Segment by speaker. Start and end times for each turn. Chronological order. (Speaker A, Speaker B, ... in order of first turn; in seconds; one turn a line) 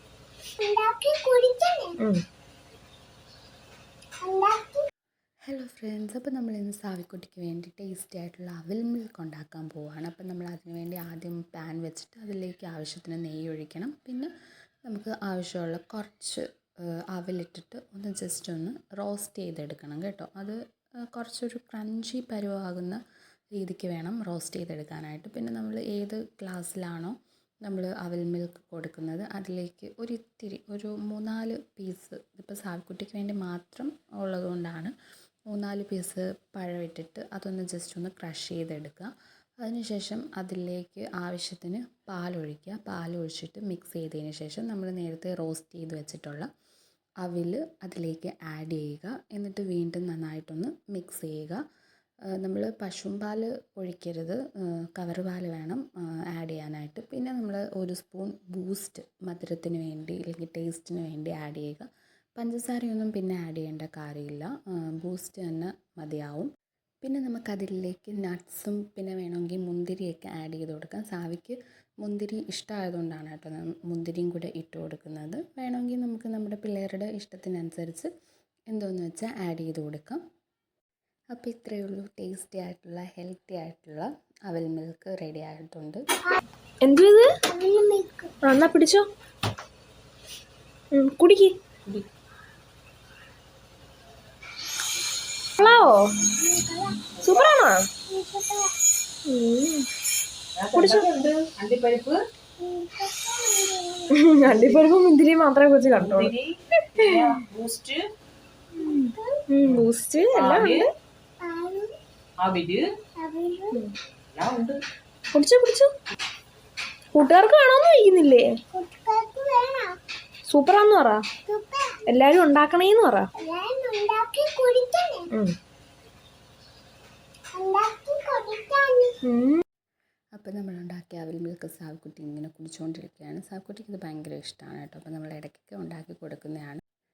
Speaker A: 0.6-1.9
Speaker A: 4.2-4.9
Speaker B: 5.5-14.3
Speaker B: 14.8-16.4
Speaker B: 17.1-20.6
Speaker B: 21.1-23.0
Speaker B: 23.6-34.9
Speaker B: 35.5-39.1
Speaker B: 39.6-46.5
Speaker B: 47.2-51.6
Speaker B: 52.3-66.5
Speaker B: 67.0-78.1
Speaker B: 78.7-80.2
Speaker B: 81.3-86.0
Speaker C: 86.8-87.2
Speaker A: 87.5-88.3
Speaker C: 88.4-89.0
Speaker C: 90.9-91.5
Speaker C: 95.6-96.0
Speaker A: 96.2-97.6
Speaker C: 97.2-97.8
Speaker A: 98.1-98.7
Speaker C: 99.3-99.8
Speaker D: 100.6-102.2
Speaker C: 100.7-101.1
Speaker A: 102.6-104.1
Speaker C: 104.1-106.3
Speaker D: 104.4-104.9
Speaker D: 106.0-108.0
Speaker C: 107.0-107.4
Speaker A: 108.8-109.4
Speaker C: 108.8-110.8
Speaker D: 109.7-110.8
Speaker A: 111.4-112.0
Speaker D: 112.4-112.8
Speaker A: 113.2-113.8
Speaker D: 114.3-114.8
Speaker C: 115.3-115.9
Speaker C: 117.1-118.5
Speaker A: 118.7-120.0
Speaker C: 120.5-121.2
Speaker A: 121.4-122.0
Speaker C: 122.1-123.2
Speaker A: 123.4-125.3
Speaker A: 127.5-129.1
Speaker C: 129.2-129.6
Speaker B: 130.3-136.8